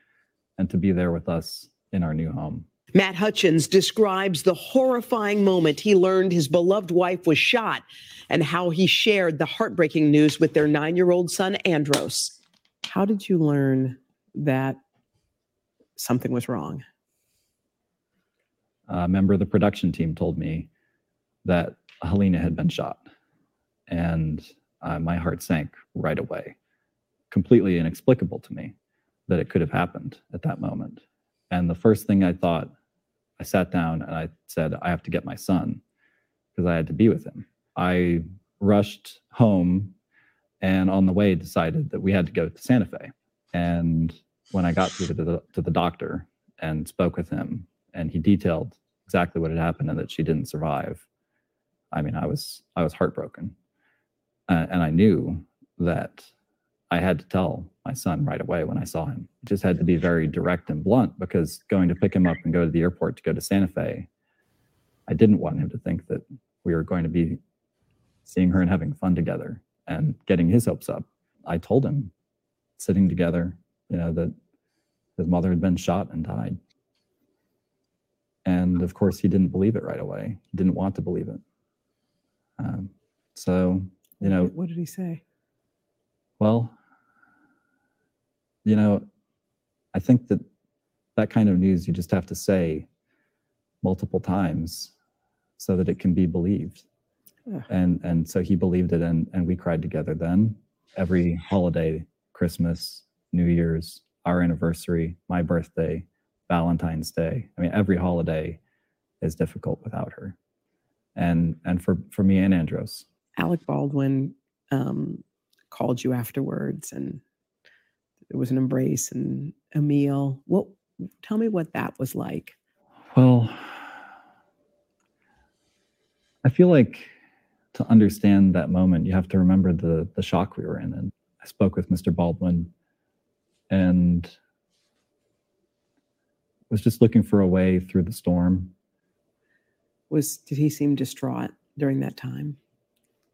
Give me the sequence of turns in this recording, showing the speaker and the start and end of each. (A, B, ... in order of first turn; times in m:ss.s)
0:00.6-0:02.7 A
0:02.9-0:12.4 B
0:12.9-0:14.8 C
0:16.0-0:16.8 C
0:18.9-0:20.7 A
0:21.4-0:23.0 A
0:23.9-0:26.6 A
0:27.3-0:28.7 A
0:29.3-0:32.7 A
0:33.4-0:35.8 A
0:36.6-0:40.0 A
0:40.6-0:51.0 A
0:51.9-0:53.6 A
0:54.5-0:56.3 A
0:56.9-1:04.1 A
1:05.1-1:07.4 A
1:08.3-1:12.1 A
1:12.8-1:14.4 A
1:15.2-1:16.6 A
1:18.4-1:21.4 A
1:22.6-1:24.5 A
1:24.2-1:25.2 C
1:26.4-1:26.8 A
1:28.6-1:29.1 A
1:29.9-1:30.5 A
1:31.2-1:32.9 A
1:33.8-1:34.9 A
1:35.6-1:36.8 A
1:37.7-1:48.6 A
1:49.2-1:50.4 A
1:51.2-1:53.1 A
1:53.4-1:57.2 C
1:58.3-2:02.6 C
2:03.1-2:03.9 A
2:06.4-2:07.1 A
2:07.7-2:12.7 A
2:13.7-2:14.3 A
2:16.7-2:18.7 A
2:20.1-2:22.6 C